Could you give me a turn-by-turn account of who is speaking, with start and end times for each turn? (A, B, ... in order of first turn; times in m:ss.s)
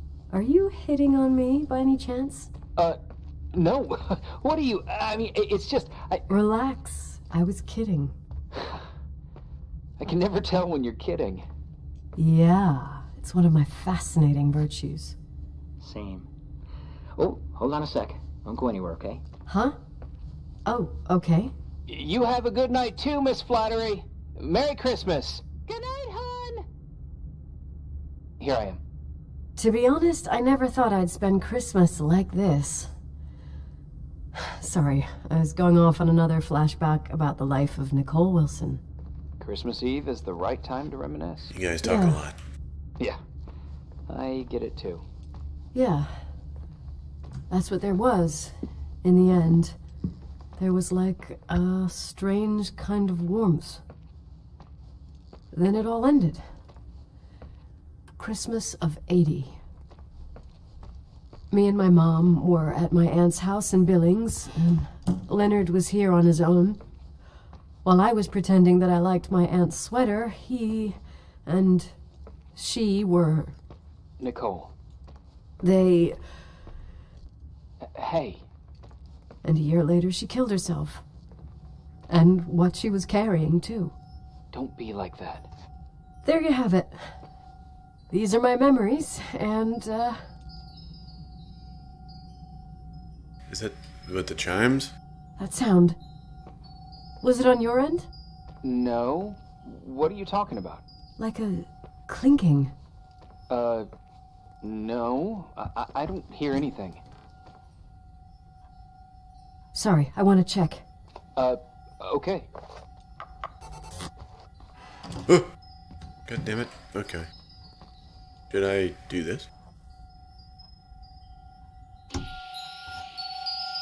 0:00.3-0:02.5 A
0:03.5-0:06.3 B
0:06.3-0:08.1 A
0:10.0-0:11.4 B
0:12.2-0:15.2 A
0:15.8-0:16.3 C
0:17.2-0:19.2 C
0:19.5-0:19.8 A
0:20.7-0:21.5 A
0:21.9-0:26.6 B
0:28.4-0:28.8 B
0:29.6-0:32.9 A
0:34.4-0:38.8 A
0:39.4-0:41.5 B
0:41.5-0:42.4 D
0:41.8-0:42.2 A
0:44.1-0:45.0 B
0:45.7-0:46.2 A
0:47.5-0:49.8 A
0:50.6-0:53.8 A
0:55.5-0:56.4 A
0:58.2-0:59.6 A
1:01.5-1:06.8 A
1:07.8-1:12.0 A
1:12.6-1:13.6 A
1:14.2-1:14.7 B
1:15.6-1:16.2 A
1:17.8-1:18.4 B
1:19.4-1:21.0 A
1:22.1-1:24.0 A
1:24.5-1:25.5 B
1:26.2-1:27.1 A
1:28.1-1:30.2 A
1:33.5-1:34.9 D
1:35.4-1:36.0 A
1:37.2-1:38.1 A
1:38.6-1:40.8 B
1:41.2-1:42.7 A
1:43.5-1:43.9 B
1:44.6-1:47.0 B
1:49.8-1:50.8 A
1:51.4-1:52.5 B
1:55.3-1:55.5 D
1:56.3-1:57.3 D
1:58.5-1:59.5 D